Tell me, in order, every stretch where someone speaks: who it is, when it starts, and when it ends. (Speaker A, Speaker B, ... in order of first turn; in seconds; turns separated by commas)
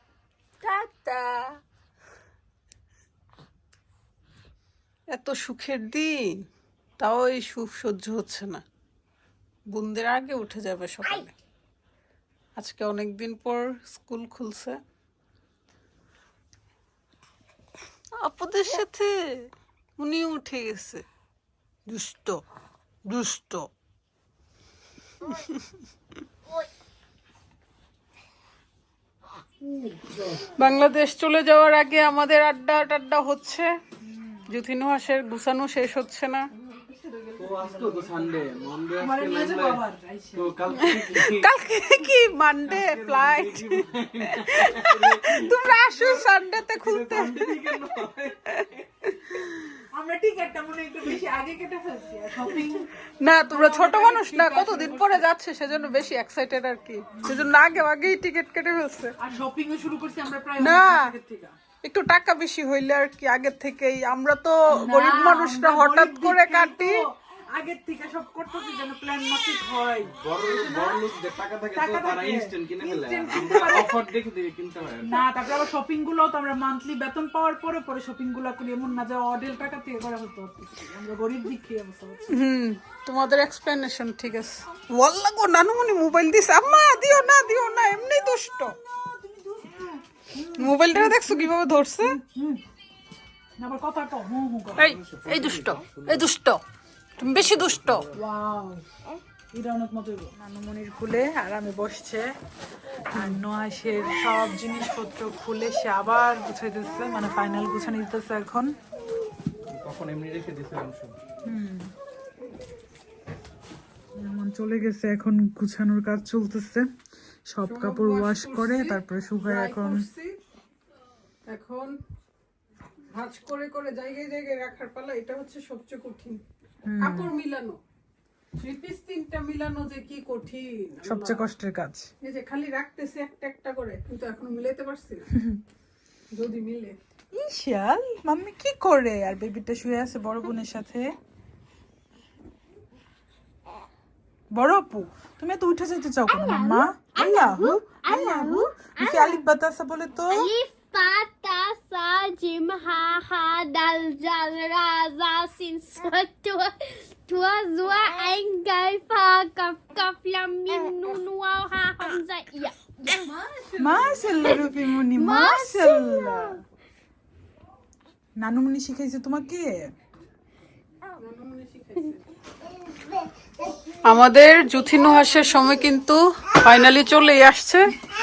Speaker A: 0.6-1.6, Speaker B: 5.1-6.4, Speaker B: 7.0-8.6, Speaker B: 9.7-11.3, Speaker B: 12.6-14.8, Speaker B: 18.2-21.0, Speaker B: 21.9-22.4, Speaker B: 23.1-23.7, Speaker B: 25.3-25.5, Speaker C: 30.0-30.4, Speaker B: 30.5-33.7, Speaker D: 34.0-34.5, Speaker B: 34.5-36.5, Speaker D: 36.7-38.4, Speaker C: 37.4-39.8, Speaker D: 39.0-40.6, Speaker C: 40.4-41.5, Speaker B: 40.8-47.8, Speaker C: 42.7-45.4, Speaker C: 46.8-48.6, Speaker B: 48.5-49.7, Speaker D: 49.9-52.9, Speaker B: 53.2-59.1, Speaker D: 53.5-55.2, Speaker D: 57.1-57.4, Speaker D: 59.2-61.5, Speaker B: 60.6-61.1, Speaker B: 61.8-67.0, Speaker D: 64.7-71.0, Speaker C: 70.2-75.2, Speaker D: 71.7-74.1, Speaker D: 75.0-82.4, Speaker B: 82.3-88.8, Speaker D: 88.8-92.6, Speaker B: 90.5-92.2, Speaker D: 93.6-95.0, Speaker B: 94.8-96.6, Speaker C: 94.9-96.2, Speaker B: 97.2-98.1, Speaker C: 97.5-98.0, Speaker D: 98.1-98.8, Speaker D: 99.5-102.3, Speaker D: 103.1-108.7, Speaker C: 109.7-111.2, Speaker D: 111.4-111.9, Speaker D: 114.2-116.9, Speaker D: 117.5-120.0, Speaker B: 117.6-120.3, Speaker B: 121.5-121.9, Speaker B: 123.1-126.4, Speaker D: 126.8-127.3, Speaker B: 127.0-127.8, Speaker B: 128.6-131.4, Speaker D: 131.0-132.1, Speaker B: 132.2-135.3, Speaker D: 135.3-135.6, Speaker B: 136.3-137.0, Speaker D: 137.3-141.1, Speaker D: 144.5-150.5, Speaker A: 146.3-149.4, Speaker A: 150.3-163.7, Speaker B: 163.4-164.3, Speaker D: 163.8-166.6, Speaker A: 165.1-166.5, Speaker D: 168.4-169.9, Speaker B: 171.2-172.2, Speaker B: 174.1-177.9